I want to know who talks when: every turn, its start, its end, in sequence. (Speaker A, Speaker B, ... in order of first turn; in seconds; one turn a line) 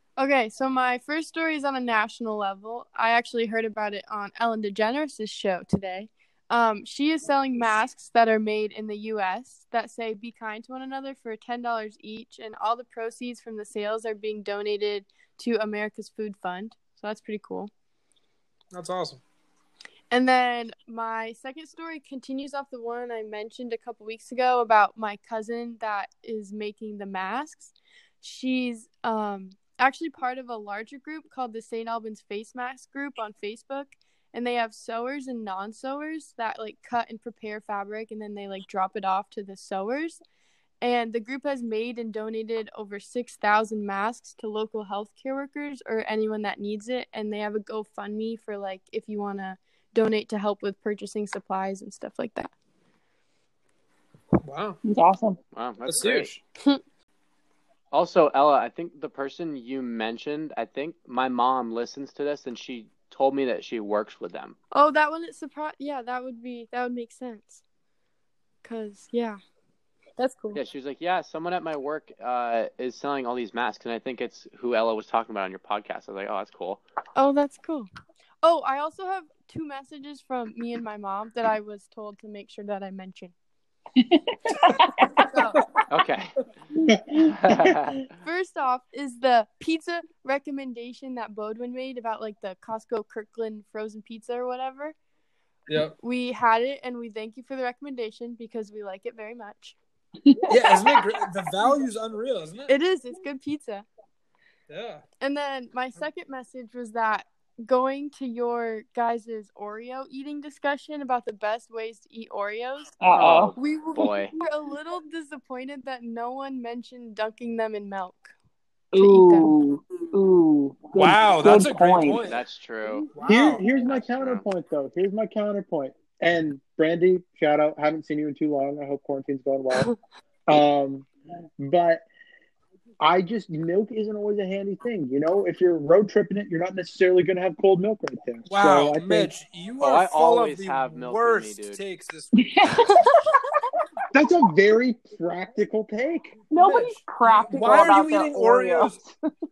Speaker A: 0.2-17.7
Speaker B: 18.7-19.2
Speaker A: 20.1-40.2
Speaker A: 40.8-52.5
Speaker B: 54.4-54.8
Speaker C: 54.8-55.4
Speaker D: 55.5-56.3
Speaker B: 55.9-56.4
Speaker D: 57.9-64.5
Speaker A: 64.7-67.6
Speaker A: 68.6-69.4
Speaker A: 70.2-70.6
Speaker D: 70.5-76.8
Speaker A: 77.2-77.9
Speaker A: 78.4-83.3
Speaker C: 84.0-85.3
Speaker A: 85.2-85.6
Speaker D: 85.9-86.4
Speaker E: 86.9-87.2
Speaker D: 87.2-88.1
Speaker A: 88.2-94.9
Speaker B: 95.7-95.9
Speaker A: 96.0-99.8
Speaker C: 100.2-101.2
Speaker B: 100.5-102.7
Speaker A: 102.7-103.8
Speaker B: 104.7-105.0
Speaker A: 105.2-112.9
Speaker C: 113.0-113.6
Speaker D: 113.1-114.3
Speaker A: 113.6-118.3
Speaker A: 118.9-119.5
Speaker C: 118.9-122.2
Speaker B: 121.0-122.4
Speaker D: 122.2-123.1
Speaker B: 123.1-123.6
Speaker E: 123.2-129.9
Speaker D: 123.8-124.4
Speaker E: 130.5-132.0
Speaker E: 133.0-139.3
Speaker B: 138.5-142.8
Speaker D: 139.8-141.8
Speaker C: 142.4-143.2
Speaker A: 143.0-143.3
Speaker E: 144.1-146.3
Speaker C: 146.5-149.2
Speaker B: 146.6-149.0